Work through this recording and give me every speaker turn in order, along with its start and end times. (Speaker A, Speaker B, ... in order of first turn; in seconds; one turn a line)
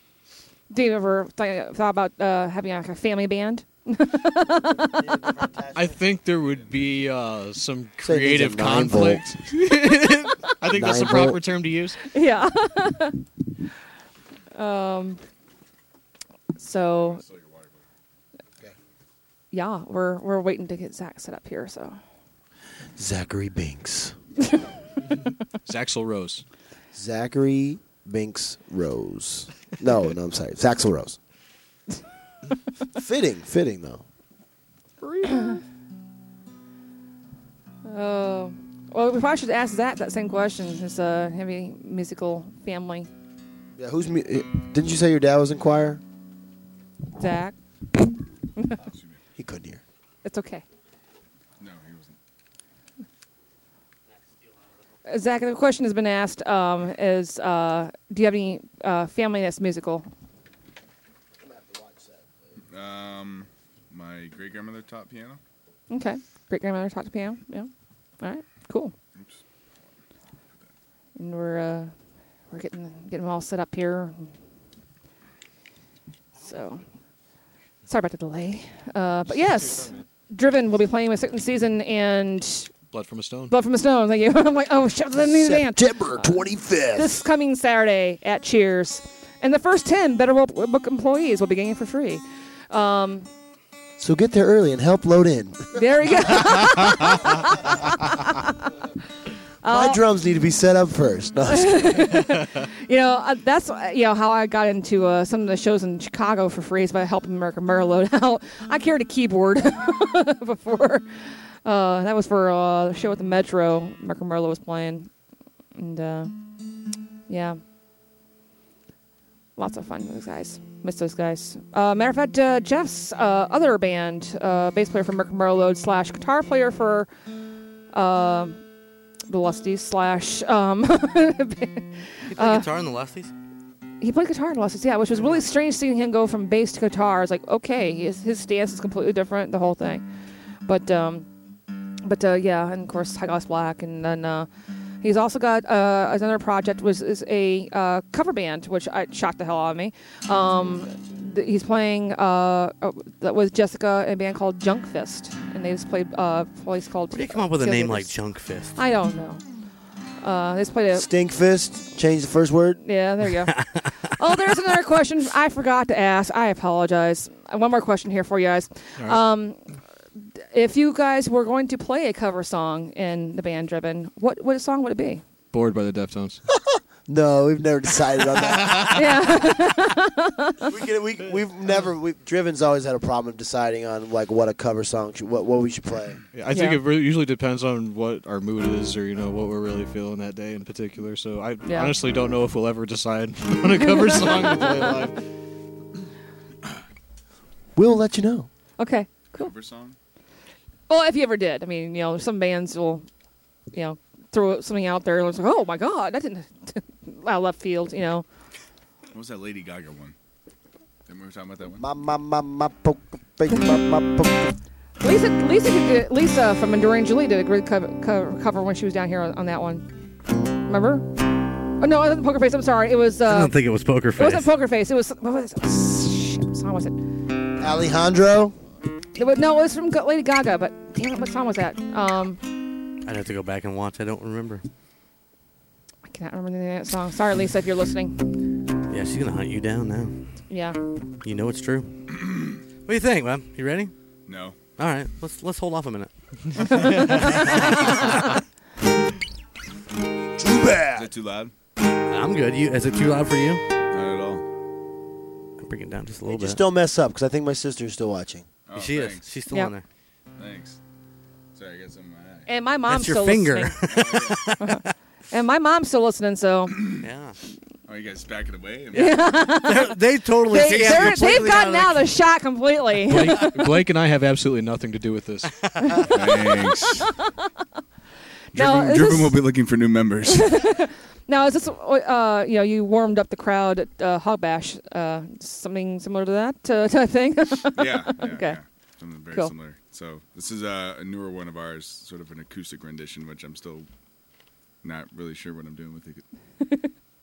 Speaker A: 0.7-5.1
Speaker B: 4.8-6.0
Speaker C: 5.7-12.0
Speaker B: 8.0-9.4
Speaker B: 10.6-11.4
Speaker A: 12.1-13.2
Speaker A: 14.5-15.2
Speaker A: 16.6-17.2
Speaker D: 16.9-17.8
Speaker A: 19.5-22.0
Speaker B: 23.0-24.1
Speaker C: 25.6-26.4
Speaker B: 26.9-31.2
Speaker B: 32.9-34.0
Speaker C: 35.0-35.6
Speaker A: 37.9-43.1
Speaker B: 43.8-46.0
Speaker A: 47.2-47.5
Speaker D: 48.8-49.2
Speaker B: 49.4-49.8
Speaker A: 50.2-50.6
Speaker D: 51.6-52.2
Speaker A: 55.1-60.1
Speaker B: 61.4-62.5
Speaker D: 62.7-65.4
Speaker A: 65.9-67.7
Speaker A: 68.2-68.9
Speaker A: 71.2-71.9
Speaker A: 72.5-74.3
Speaker A: 76.4-76.8
Speaker A: 77.9-82.7
Speaker C: 79.4-80.0
Speaker C: 82.9-83.5
Speaker A: 83.5-93.3
Speaker B: 85.2-87.1
Speaker B: 94.0-95.7
Speaker A: 95.7-98.7
Speaker B: 96.2-96.5
Speaker A: 99.6-100.0
Speaker B: 99.6-102.1
Speaker A: 101.5-111.0
Speaker A: 111.6-115.1
Speaker A: 115.8-116.3
Speaker A: 117.3-117.6
Speaker A: 119.6-127.1
Speaker A: 127.9-128.6
Speaker A: 129.3-132.7
Speaker E: 132.3-133.3
Speaker A: 134.0-140.0
Speaker A: 140.7-141.3
Speaker A: 142.0-144.5
Speaker A: 145.0-158.1
Speaker E: 157.1-158.8
Speaker A: 158.8-159.4
Speaker A: 160.2-161.1
Speaker B: 160.9-162.8
Speaker A: 162.8-163.6
Speaker E: 163.5-163.8
Speaker A: 164.2-169.6
Speaker A: 170.5-175.2
Speaker C: 175.5-176.4
Speaker B: 176.5-179.3
Speaker A: 178.9-180.7
Speaker B: 180.7-186.2
Speaker C: 186.3-195.2
Speaker A: 186.5-186.8
Speaker A: 191.6-191.9
Speaker A: 193.8-195.0
Speaker B: 197.8-198.5
Speaker A: 198.8-199.5
Speaker D: 199.4-199.9
Speaker A: 200.9-203.1
Speaker A: 203.7-208.2
Speaker D: 209.1-210.2
Speaker D: 211.1-211.8
Speaker B: 211.8-214.5
Speaker A: 215.0-219.9
Speaker A: 220.6-221.1
Speaker A: 221.8-223.6
Speaker E: 223.3-224.5
Speaker A: 224.2-227.0
Speaker B: 227.6-228.6
Speaker A: 229.2-232.4
Speaker E: 233.0-234.6
Speaker A: 236.1-238.2
Speaker E: 238.9-240.2
Speaker A: 240.5-240.8
Speaker E: 241.2-242.0
Speaker D: 242.2-242.6
Speaker E: 242.8-243.9
Speaker D: 244.3-244.6
Speaker E: 244.8-248.4
Speaker A: 246.7-247.4
Speaker B: 250.4-251.1
Speaker D: 250.9-251.5
Speaker E: 252.1-253.6
Speaker D: 253.9-254.4
Speaker E: 255.6-256.6
Speaker B: 256.2-258.5
Speaker D: 258.6-259.2
Speaker E: 258.7-259.9
Speaker D: 260.4-260.8
Speaker D: 261.5-262.5
Speaker A: 262.4-263.8
Speaker E: 262.9-264.9
Speaker D: 263.9-264.5
Speaker A: 264.6-266.9
Speaker D: 266.7-267.0
Speaker E: 267.0-267.4
Speaker D: 267.9-269.4
Speaker A: 268.9-269.9
Speaker E: 269.5-272.1
Speaker A: 270.5-273.5
Speaker D: 270.5-271.4
Speaker C: 273.1-275.5
Speaker E: 273.2-273.5
Speaker E: 275.7-276.1
Speaker A: 275.9-276.9
Speaker D: 276.1-277.1
Speaker A: 278.5-279.4
Speaker D: 278.5-280.6
Speaker A: 280.3-288.6
Speaker D: 287.7-293.9
Speaker D: 294.8-296.2
Speaker A: 296.6-296.9